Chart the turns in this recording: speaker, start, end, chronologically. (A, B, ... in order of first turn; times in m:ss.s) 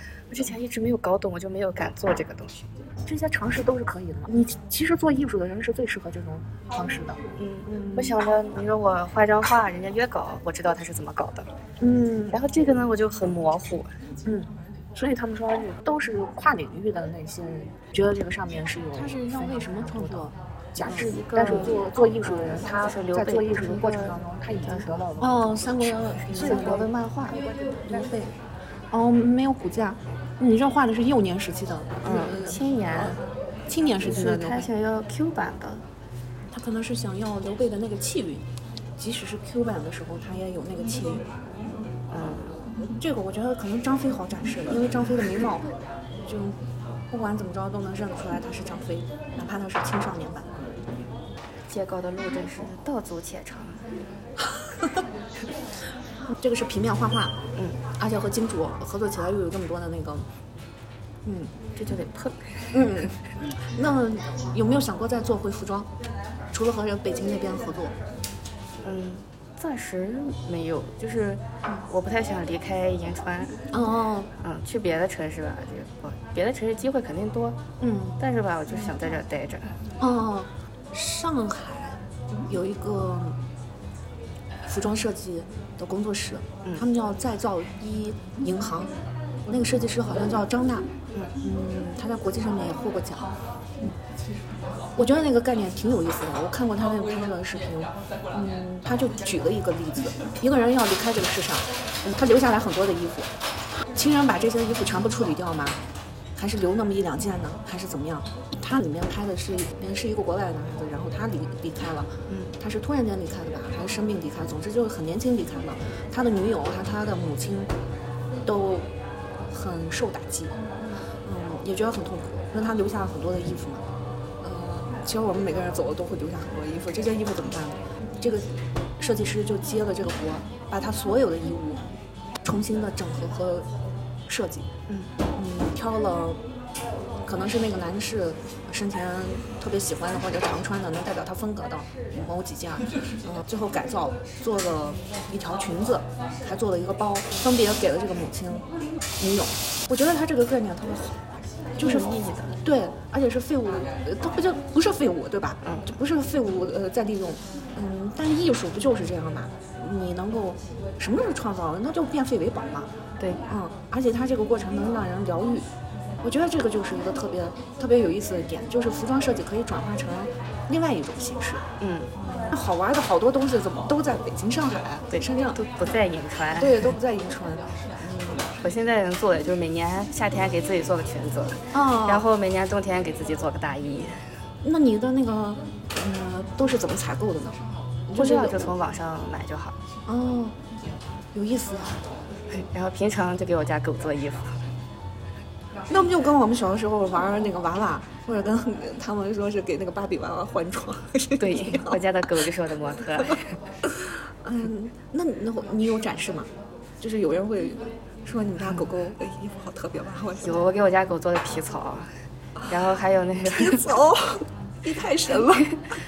0:00.3-0:02.7 A
0:03.1-0:07.2 B
0:07.4-0:11.5 A
0:07.7-0:08.1 C
0:11.8-0:12.3 C
0:11.8-0:12.3 B
0:12.3-0:13.9 A
0:14.3-0:20.2 B
0:18.9-0:21.9 C
0:20.8-0:25.3 B
0:20.8-0:25.2 A
0:25.2-0:26.9 C
0:26.2-0:27.4 A
0:27.8-0:28.3 C
0:28.9-0:33.2 C
0:32.0-0:33.2 A
0:33.7-0:34.7 C
0:34.0-0:35.9 A
0:36.5-0:38.4 C
0:39.0-0:41.3 C
0:42.1-0:42.6 A
0:42.8-0:45.7 C
0:46.2-0:50.5 C
0:51.7-0:53.8 A
0:56.3-0:57.4 C
0:58.0-1:00.3 C
1:01.2-1:01.5 C
1:01.8-1:02.9 A
1:02.7-1:05.9 C
1:06.5-1:08.0 C
1:08.8-1:13.7 A
1:13.7-1:14.3 C
1:14.4-1:17.6 A
1:17.8-1:18.2 C
1:18.2-1:19.7 A
1:20.0-1:23.4 C
1:24.7-1:28.9 C
1:29.5-1:30.9 C
1:31.4-1:33.9 C
1:35.0-1:45.8 C
1:46.4-1:57.7 C
1:58.4-1:58.9 C
1:59.5-2:00.6 C
2:01.2-2:03.8 C
2:04.4-2:11.9 C
2:12.4-2:13.7 C
2:14.3-2:14.7 C
2:15.4-2:16.4 C
2:17.2-2:28.7 C
2:29.2-2:31.2 C
2:31.8-2:32.6 A
2:31.8-2:42.9 C
2:43.5-2:45.7 C
2:46.2-2:51.6 C
2:51.8-2:52.2 A
2:52.3-2:55.6 C
2:55.1-2:56.9 A
2:56.6-2:58.5 C
2:58.6-3:04.2 A
3:01.7-3:02.3 C
3:04.6-3:08.7 C
3:08.1-3:09.8 A
3:10.1-3:10.6 C
3:11.3-3:12.1 C
3:12.5-3:14.6 A
3:15.9-3:22.0 C
3:21.4-3:23.6 A
3:23.8-3:30.6 C
3:30.4-3:32.1 A
3:32.7-3:33.9 A
3:33.5-3:35.8 C